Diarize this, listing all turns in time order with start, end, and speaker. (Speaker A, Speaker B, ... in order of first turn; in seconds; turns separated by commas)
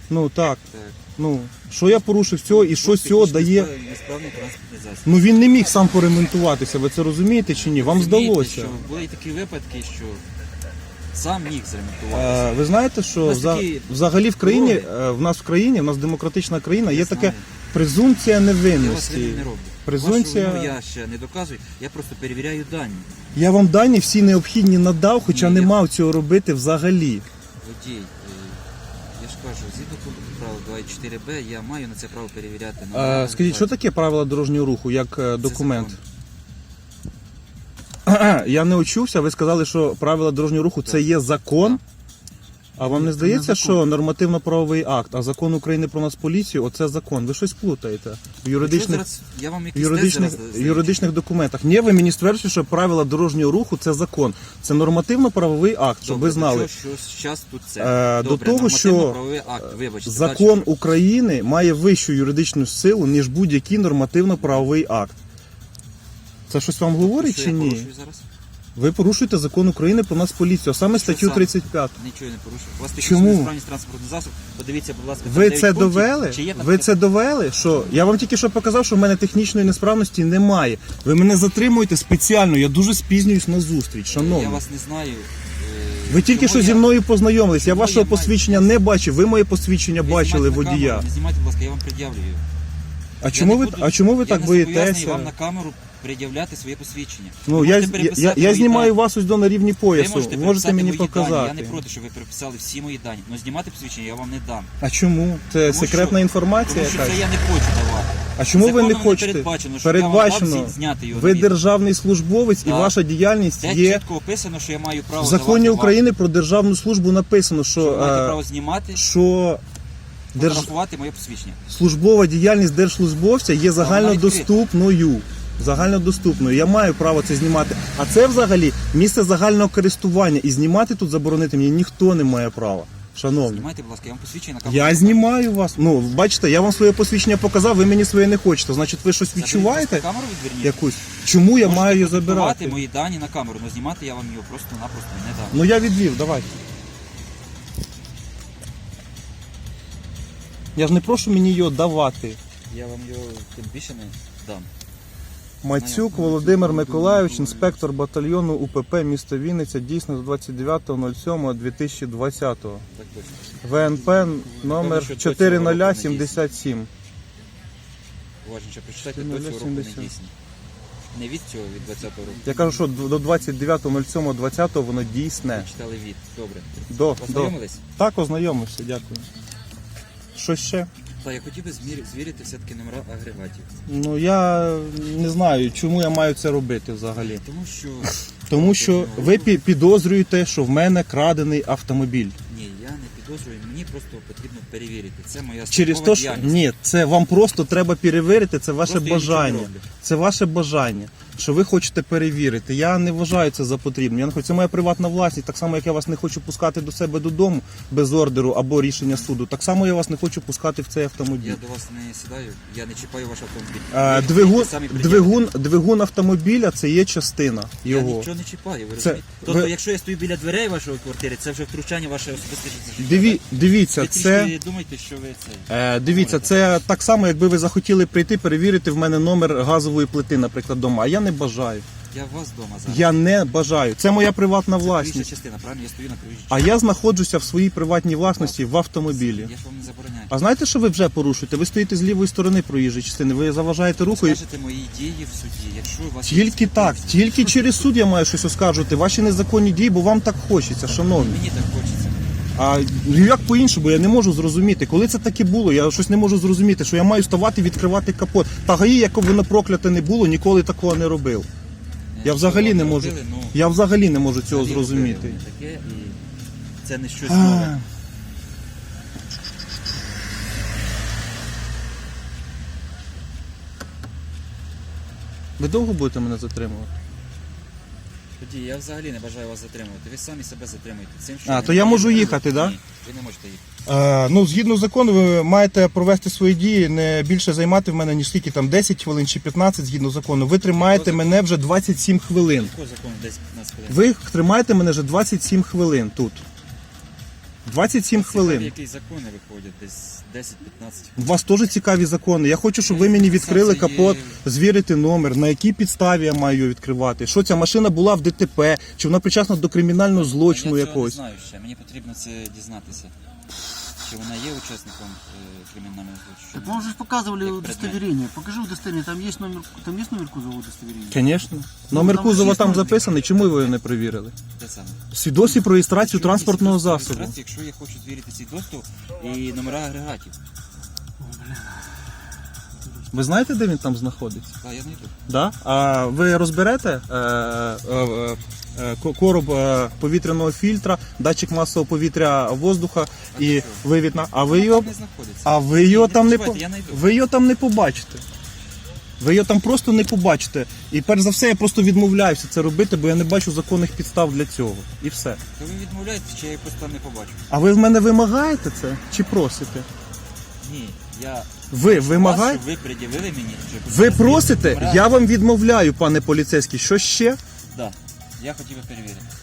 Speaker A: 0.1-0.6, Speaker B: 0.7-1.0, Speaker A: 1.2-3.7, Speaker B: 2.4-5.1, Speaker A: 5.0-8.8, Speaker B: 7.5-10.2, Speaker B: 11.1-12.6, Speaker A: 12.1-20.8, Speaker B: 13.2-14.9, Speaker B: 16.9-17.5, Speaker B: 18.8-23.1, Speaker A: 23.3-27.3, Speaker B: 25.2-25.8, Speaker B: 27.6-28.6, Speaker B: 29.1-33.8, Speaker A: 32.9-36.0, Speaker B: 35.4-36.0, Speaker A: 38.1-41.8, Speaker B: 40.8-41.1, Speaker A: 42.8-49.0, Speaker C: 42.8-43.9, Speaker B: 48.6-51.1, Speaker A: 49.7-56.7, Speaker B: 56.0-60.7, Speaker A: 57.8-59.2, Speaker A: 60.0-65.2, Speaker B: 64.4-64.7, Speaker A: 66.5-67.9, Speaker B: 67.0-68.2, Speaker A: 68.8-72.0, Speaker B: 70.8-77.0, Speaker A: 73.0-73.5, Speaker A: 75.2-84.6, Speaker B: 84.1-86.9, Speaker A: 86.1-91.1, Speaker B: 87.5-88.8, Speaker B: 90.0-92.4, Speaker A: 93.2-95.3, Speaker B: 93.3-99.0, Speaker A: 97.5-101.8, Speaker B: 99.9-104.7, Speaker A: 104.8-107.2, Speaker B: 105.7-111.5, Speaker A: 108.4-114.0, Speaker B: 112.6-112.9, Speaker B: 113.6-116.0, Speaker A: 115.2-118.4, Speaker B: 117.8-119.0, Speaker A: 118.9-119.6, Speaker B: 120.3-121.6, Speaker A: 120.4-120.7, Speaker A: 121.7-133.7, Speaker B: 123.8-124.5, Speaker B: 133.3-135.2, Speaker A: 134.7-140.1, Speaker B: 139.3-140.9, Speaker A: 140.6-142.8, Speaker B: 141.6-145.6, Speaker A: 145.5-146.5, Speaker A: 150.8-152.4, Speaker B: 152.7-154.7, Speaker A: 155.6-162.8, Speaker B: 155.7-156.3, Speaker C: 156.2-157.8, Speaker B: 162.9-163.6, Speaker A: 163.6-166.9, Speaker C: 163.8-164.4, Speaker B: 164.6-166.4, Speaker B: 168.4-170.3, Speaker A: 169.1-170.1, Speaker B: 171.1-172.7, Speaker A: 172.4-175.7, Speaker B: 175.5-177.8, Speaker A: 176.9-179.3, Speaker A: 180.3-180.9, Speaker B: 181.2-183.8, Speaker A: 183.9-187.4, Speaker B: 187.2-189.7, Speaker A: 188.5-192.3, Speaker B: 192.5-196.7, Speaker A: 195.7-211.6, Speaker B: 198.8-199.9, Speaker B: 211.4-215.5, Speaker A: 213.9-218.3, Speaker B: 217.8-226.8, Speaker A: 219.0-219.7, Speaker A: 223.0-224.5, Speaker A: 225.7-231.8, Speaker B: 232.1-233.1, Speaker A: 232.9-235.3, Speaker B: 234.8-236.7, Speaker A: 236.5-239.5, Speaker B: 238.3-240.3, Speaker A: 240.3-244.4, Speaker B: 244.1-247.8, Speaker A: 246.3-251.4, Speaker B: 251.2-252.4, Speaker A: 252.6-261.5, Speaker B: 262.1-263.6, Speaker A: 262.2-265.4, Speaker B: 264.5-266.2, Speaker B: 266.8-267.8, Speaker A: 267.2-267.8, Speaker A: 275.6-276.9, Speaker B: 278.4-283.6, Speaker A: 281.4-282.8, Speaker A: 283.9-292.7, Speaker B: 290.7-291.4, Speaker B: 292.6-294.1, Speaker A: 293.9-296.4, Speaker A: 297.6-298.7, Speaker B: 298.1-301.2, Speaker A: 301.2-311.2, Speaker B: 302.9-304.4, Speaker B: 310.1-313.1, Speaker B: 314.0-318.1, Speaker C: 316.5-321.2, Speaker A: 321.1-324.3, Speaker C: 321.9-322.9, Speaker B: 322.0-323.8, Speaker B: 324.5-330.4, Speaker A: 325.1-327.4, Speaker C: 331.2-332.1, Speaker A: 333.1-334.5, Speaker B: 334.6-335.1, Speaker A: 335.3-344.9, Speaker B: 343.3-343.8, Speaker B: 344.4-347.0, Speaker A: 345.4-348.2, Speaker A: 349.2-355.4, Speaker B: 355.6-357.4, Speaker A: 357.5-359.9, Speaker B: 360.6-365.1, Speaker A: 361.7-362.6, Speaker A: 363.9-367.4, Speaker B: 367.7-369.3